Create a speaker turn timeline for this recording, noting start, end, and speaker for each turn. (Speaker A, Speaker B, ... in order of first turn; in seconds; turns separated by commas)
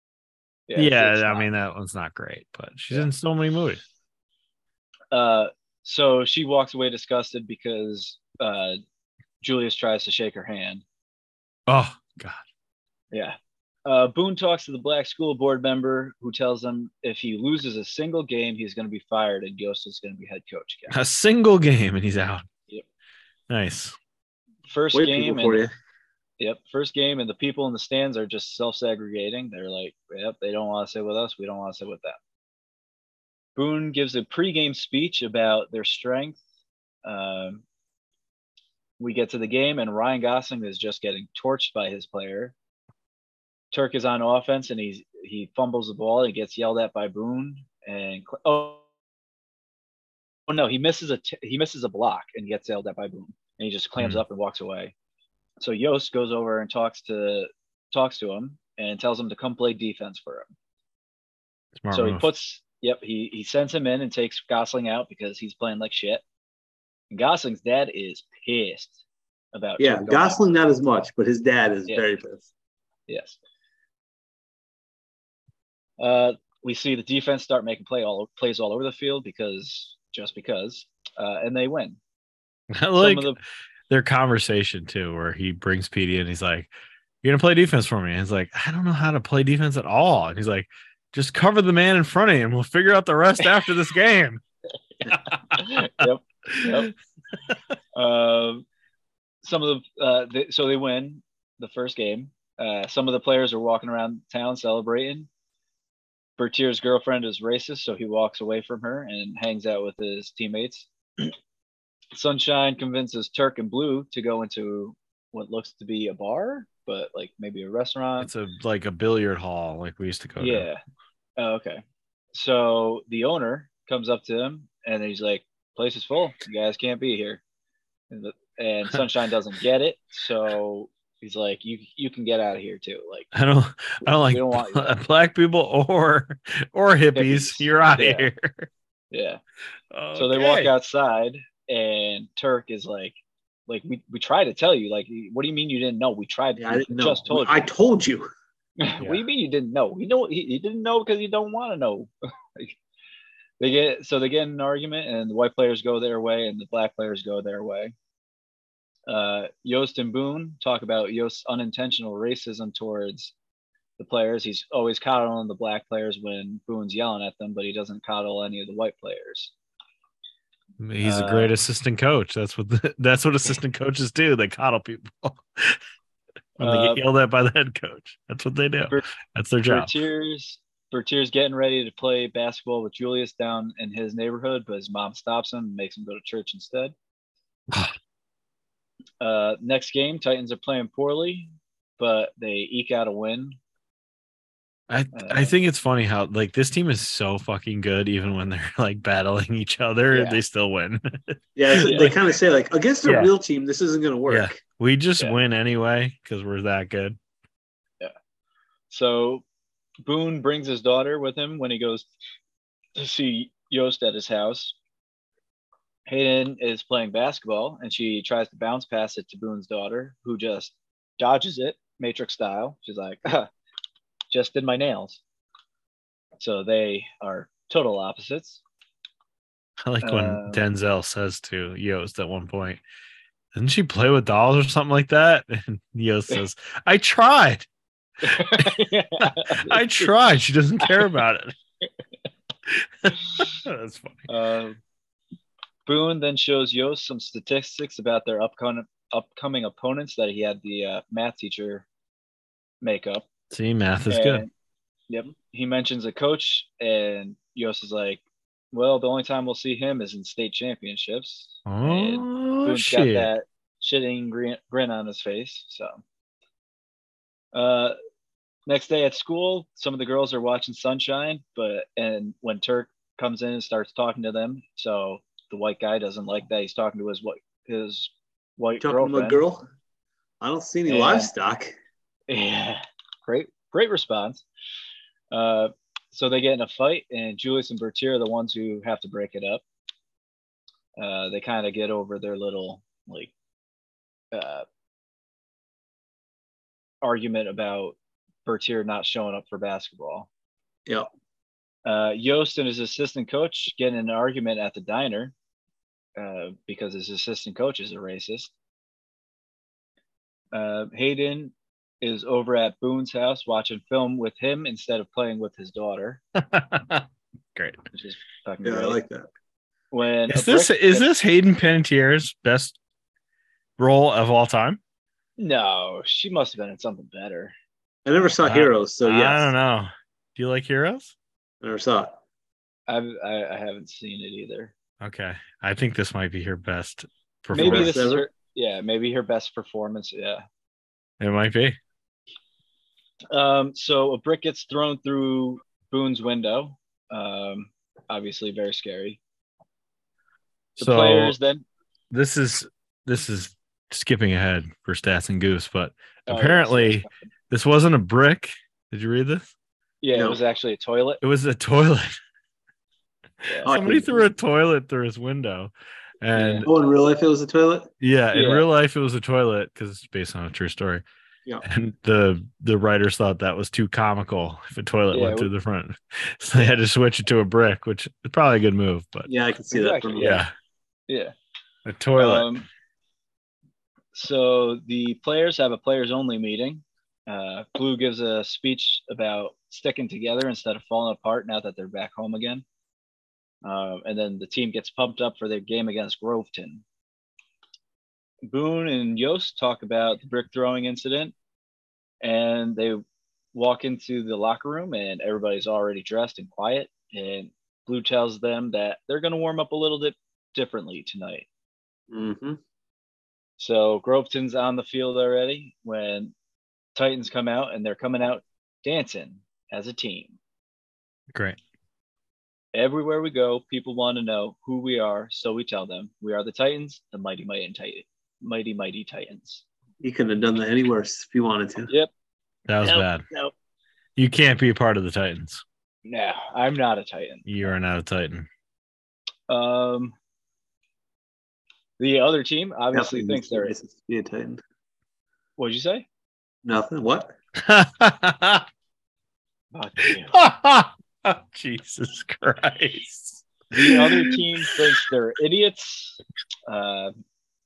Speaker A: 0.7-1.5, Speaker B: 0.8-3.8, Speaker A: 5.1-8.8, Speaker A: 9.4-10.8, Speaker B: 11.7-12.4, Speaker A: 13.1-20.9, Speaker B: 20.9-22.4, Speaker B: 23.5-23.9, Speaker A: 24.7-25.6, Speaker C: 24.9-25.7, Speaker A: 26.4-32.2, Speaker A: 33.5-36.4, Speaker A: 37.0-37.6, Speaker A: 39.0-42.5, Speaker A: 43.7-48.8, Speaker A: 50.5-54.9, Speaker A: 55.6-60.5, Speaker B: 61.8-62.2, Speaker A: 61.9-66.2, Speaker A: 67.1-69.0, Speaker A: 69.5-70.4, Speaker C: 69.8-72.4, Speaker A: 73.1-73.4, Speaker A: 76.0-82.0, Speaker B: 82.7-83.3, Speaker A: 83.0-83.4, Speaker B: 83.9-86.7, Speaker B: 87.2-94.4, Speaker B: 95.0-96.9, Speaker A: 95.5-96.9, Speaker A: 98.0-98.6, Speaker A: 99.4-105.3, Speaker A: 106.4-111.3, Speaker A: 112.1-118.3, Speaker B: 118.2-120.7, Speaker A: 120.4-120.8, Speaker A: 121.4-121.8, Speaker A: 122.3-127.4, Speaker A: 128.1-133.3, Speaker B: 133.3-138.7, Speaker A: 134.2-134.9, Speaker A: 137.1-138.3, Speaker A: 139.1-139.4, Speaker B: 139.9-140.7, Speaker A: 140.1-143.1, Speaker A: 143.7-147.7, Speaker C: 146.6-148.3, Speaker A: 148.8-152.8, Speaker A: 153.6-157.9, Speaker A: 159.1-163.3, Speaker A: 164.0-169.5, Speaker B: 170.8-175.8, Speaker A: 171.0-171.5, Speaker A: 176.6-177.0, Speaker B: 176.6-179.9, Speaker A: 179.6-186.9, Speaker A: 189.2-193.6, Speaker B: 194.9-202.2, Speaker A: 195.1-195.6, Speaker A: 200.1-200.4, Speaker C: 201.6-204.6, Speaker A: 201.8-202.1, Speaker B: 203.1-203.3, Speaker B: 204.3-207.2, Speaker A: 208.9-209.4, Speaker A: 210.1-212.1, Speaker A: 212.9-214.7, Speaker A: 216.1-223.5, Speaker A: 224.3-225.2, Speaker A: 226.4-228.6, Speaker B: 229.8-232.8, Speaker A: 230.0-230.6, Speaker B: 233.6-237.7, Speaker A: 238.2-240.1, Speaker B: 238.3-241.5, Speaker A: 240.8-241.2, Speaker B: 242.7-244.3, Speaker A: 243.1-243.6, Speaker A: 244.3-244.8, Speaker A: 245.9-251.9, Speaker A: 252.8-253.3, Speaker B: 253.5-254.4, Speaker A: 254.1-254.5, Speaker A: 255.1-266.0, Speaker B: 261.6-263.3, Speaker A: 267.5-267.9, Speaker A: 268.7-279.4, Speaker C: 278.8-279.6, Speaker C: 280.4-281.7, Speaker A: 280.9-281.3, Speaker A: 282.3-284.4, Speaker A: 285.3-289.6, Speaker A: 291.0-293.3, Speaker A: 294.3-294.6, Speaker A: 297.0-300.3, Speaker A: 301.8-305.3, Speaker A: 306.2-308.5, Speaker A: 310.5-316.2, Speaker B: 316.4-317.8, Speaker A: 317.9-319.0, Speaker C: 318.6-319.3, Speaker A: 319.9-321.1, Speaker B: 320.3-322.7, Speaker B: 323.8-324.8, Speaker A: 325.4-327.5, Speaker C: 328.1-329.5, Speaker B: 328.4-331.1, Speaker C: 331.6-332.2, Speaker A: 332.9-334.7, Speaker B: 335.0-337.9, Speaker A: 337.5-340.4, Speaker C: 337.5-338.3, Speaker B: 341.2-341.8, Speaker A: 343.3-349.2, Speaker B: 350.8-351.3, Speaker A: 350.8-351.6, Speaker B: 352.1-359.5, Speaker A: 356.3-357.1, Speaker A: 360.0-361.2, Speaker B: 361.2-362.1, Speaker A: 363.4-363.7, Speaker B: 363.6-366.7, Speaker C: 363.6-364.3, Speaker A: 366.3-366.6, Speaker C: 366.6-367.9, Speaker B: 368.0-371.0, Speaker A: 368.3-368.6, Speaker B: 371.6-379.3, Speaker A: 375.1-375.5, Speaker C: 379.3-380.4, Speaker A: 379.7-380.4, Speaker B: 380.2-380.5, Speaker A: 381.1-381.3, Speaker B: 381.9-382.5, Speaker A: 382.1-382.6, Speaker A: 384.1-392.6, Speaker A: 393.6-396.8, Speaker A: 398.5-401.3, Speaker A: 402.2-403.0, Speaker A: 403.5-411.4, Speaker C: 412.1-412.6, Speaker A: 413.6-416.3, Speaker A: 416.9-420.4, Speaker A: 422.7-429.6, Speaker C: 430.0-431.9, Speaker B: 432.7-433.2, Speaker C: 432.8-433.5, Speaker B: 434.2-435.6, Speaker A: 436.1-437.6, Speaker B: 437.4-438.5, Speaker A: 439.5-440.1, Speaker A: 442.0-443.7, Speaker C: 442.9-444.6, Speaker A: 445.6-446.1, Speaker C: 446.6-447.3, Speaker B: 447.6-448.6, Speaker A: 449.7-450.3, Speaker B: 450.3-454.4, Speaker A: 453.7-457.1